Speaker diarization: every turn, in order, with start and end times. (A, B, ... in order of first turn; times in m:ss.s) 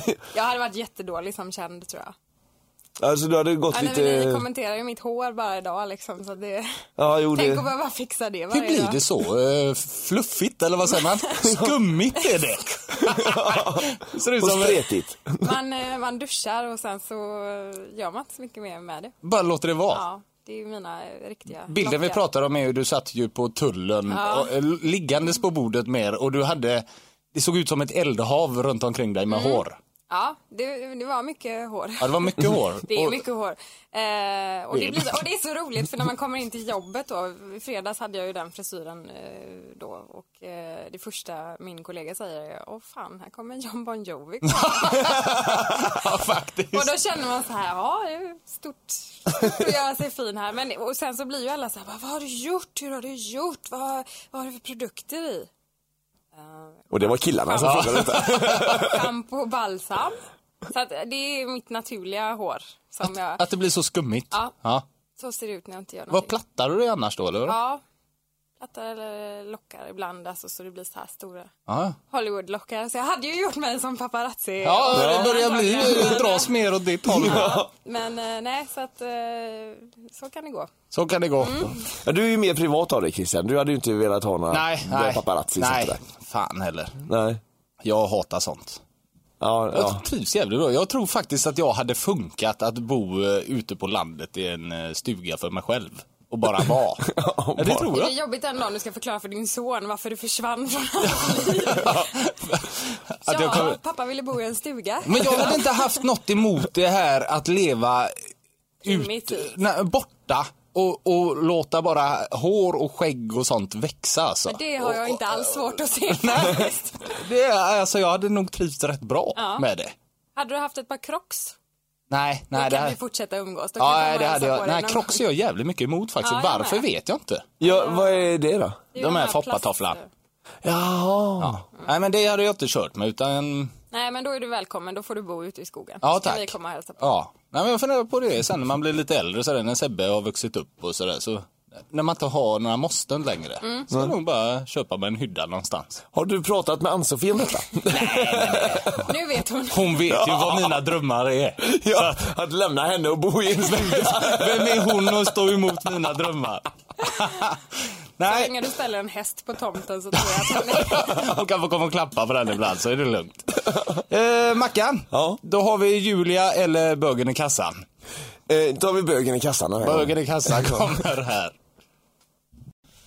0:00.3-0:02.1 A
0:03.0-0:04.5 B
0:03.7-0:06.7 A
0:07.0-0:07.7 B
0:07.3-0:09.0 A
0:08.5-0:14.9 C
0:13.1-0:13.8 B
0:14.4-0:15.5 B
0:15.4-0:19.2 A
0:19.2-0:20.0 C
0:19.9-0:22.2 A
0:21.7-0:29.8 C
0:24.1-0:24.5 A
0:29.3-0:46.0 A
0:32.0-0:33.2 C
0:34.7-0:35.2 C
0:44.5-0:46.9 C
0:46.7-0:55.5 A
0:56.4-1:00.2 A
0:56.9-0:59.1 B
0:57.6-0:58.8 C
1:00.7-1:03.4 A
1:03.4-1:04.8 C
1:05.2-1:06.3 A
1:06.1-1:07.6 C
1:07.5-1:07.8 A
1:08.6-1:11.5 A
1:11.7-1:12.0 C
1:12.1-1:16.6 A
1:14.6-1:17.6 C
1:14.9-1:16.1 B
1:17.1-1:17.7 B
1:17.1-1:20.7 A
1:20.9-1:21.7 C
1:21.4-1:21.8 A
1:22.0-1:26.0 B
1:24.5-1:27.0 C
1:27.1-1:27.4 B
1:27.8-1:28.8 C
1:29.4-1:30.0 B
1:29.7-1:37.1 C
1:37.1-1:37.9 B
1:37.6-1:38.1 C
1:37.9-1:42.1 A
1:41.3-1:43.8 C
1:43.3-1:45.9 A
1:45.1-1:48.1 C
1:48.8-1:49.5 A
1:48.8-1:55.5 C
1:54.5-1:57.2 A
1:56.1-1:59.9 C
1:59.4-1:59.6 A
2:00.4-2:01.6 A
2:02.1-2:03.0 C
2:02.5-2:05.2 A
2:03.8-2:07.5 C
2:06.2-2:06.8 A
2:07.6-2:08.8 B
2:07.6-2:08.3 A
2:08.9-2:10.1 A
2:09.0-2:10.0 C
2:10.6-2:11.6 B
2:11.4-2:13.7 C
2:13.9-2:17.1 A
2:16.0-2:26.0 C
2:23.6-2:23.9 A
2:26.1-2:29.0 B
2:27.9-2:29.0 C
2:29.0-2:30.0 A
2:29.7-2:32.2 C
2:30.1-2:30.8 B
2:31.6-2:35.2 B
2:33.7-2:37.6 C
2:38.2-2:38.5 C
2:38.2-2:41.2 A
2:40.4-2:43.4 C
2:44.1-2:47.8 C
2:45.1-2:45.4 B
2:48.5-2:50.9 B
2:49.8-2:51.6 C